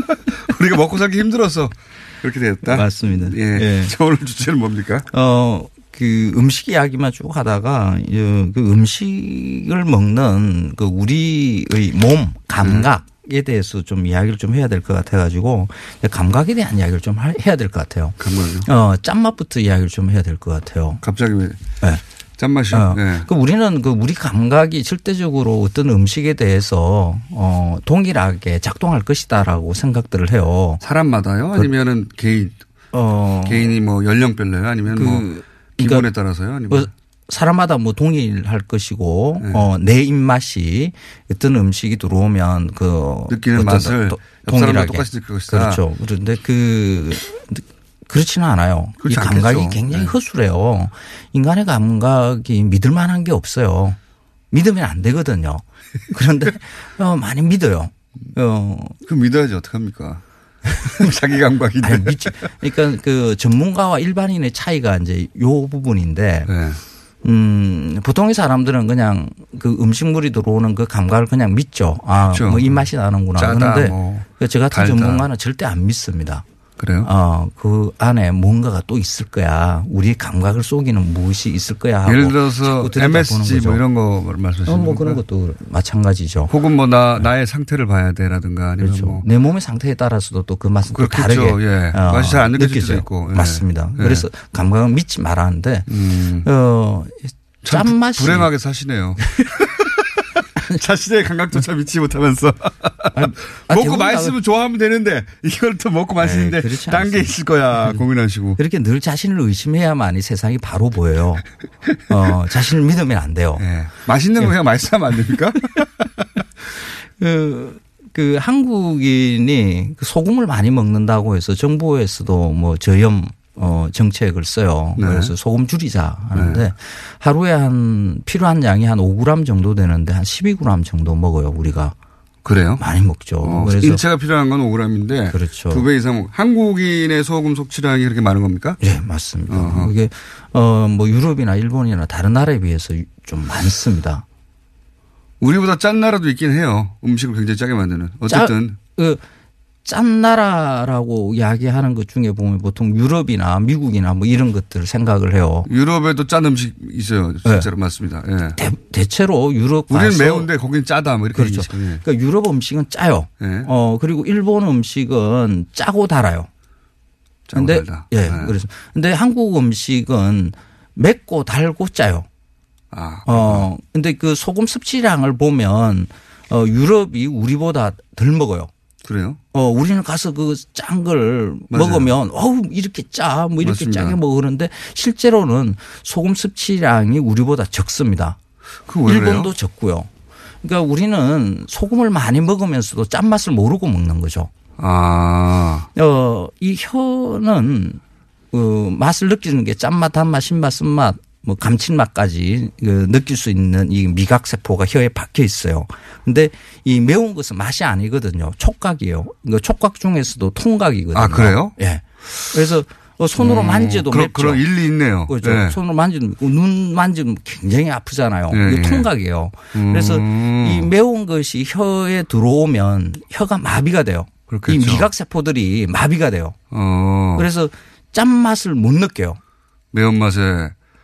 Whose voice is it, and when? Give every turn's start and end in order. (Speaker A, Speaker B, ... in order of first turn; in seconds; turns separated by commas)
Speaker A: 0.4-5.1, Speaker B: 2.6-3.9, Speaker B: 5.1-21.0, Speaker A: 12.6-12.9, Speaker A: 18.2-18.7, Speaker A: 21.0-21.6, Speaker A: 22.4-23.3, Speaker B: 22.7-30.8, Speaker A: 30.8-32.5, Speaker B: 32.9-33.7, Speaker A: 33.4-35.2, Speaker B: 34.9-36.1, Speaker A: 35.8-36.9, Speaker B: 36.7-54.0, Speaker A: 43.3-45.8, Speaker A: 49.0-50.1, Speaker B: 54.5-59.0, Speaker A: 59.0-60.2, Speaker A: 60.8-62.2, Speaker B: 61.8-66.5, Speaker A: 66.5-66.8, Speaker B: 67.2-76.4, Speaker A: 72.3-72.8, Speaker A: 73.4-75.3, Speaker A: 76.8-77.1, Speaker B: 77.0-83.8, Speaker A: 82.0-85.2, Speaker B: 84.7-86.5, Speaker A: 86.5-89.2, Speaker B: 88.8-95.9, Speaker A: 90.9-94.3, Speaker A: 95.9-96.5, Speaker B: 96.4-98.5, Speaker A: 97.6-99.7, Speaker B: 99.2-99.6, Speaker A: 100.7-108.6, Speaker B: 103.1-104.3, Speaker B: 106.2-108.0, Speaker B: 108.6-111.4, Speaker B: 112.1-113.6, Speaker A: 113.6-115.8, Speaker B: 117.2-131.9, Speaker A: 125.0-125.3, Speaker A: 126.3-126.6, Speaker A: 132.4-132.8, Speaker B: 132.8-134.0, Speaker A: 133.4-138.8, Speaker B: 135.3-135.9, Speaker B: 138.8-144.2, Speaker A: 139.5-139.9, Speaker A: 145.4-148.8, Speaker B: 148.3-149.2, Speaker B: 149.8-155.7, Speaker A: 155.7-158.6, Speaker B: 157.4-157.7, Speaker B: 158.6-160.5, Speaker A: 159.9-162.0, Speaker B: 161.3-166.5, Speaker A: 163.4-163.7, Speaker A: 167.5-168.5, Speaker B: 167.5-172.3, Speaker A: 172.9-173.7, Speaker B: 173.2-178.7, Speaker A: 179.0-179.4, Speaker B: 179.5-188.4, Speaker A: 181.7-182.1, Speaker A: 183.6-184.2, Speaker A: 188.9-189.5, Speaker B: 189.0-190.1, Speaker B: 190.6-194.5, Speaker A: 194.8-195.9, Speaker B: 195.9-198.0, Speaker B: 198.5-214.7, Speaker A: 211.1-211.7, Speaker A: 213.4-215.8, Speaker B: 215.3-226.6, Speaker A: 218.5-219.1, Speaker A: 219.7-220.9, Speaker A: 224.5-225.1, Speaker A: 226.7-227.5, Speaker B: 227.3-229.4, Speaker A: 229.9-230.7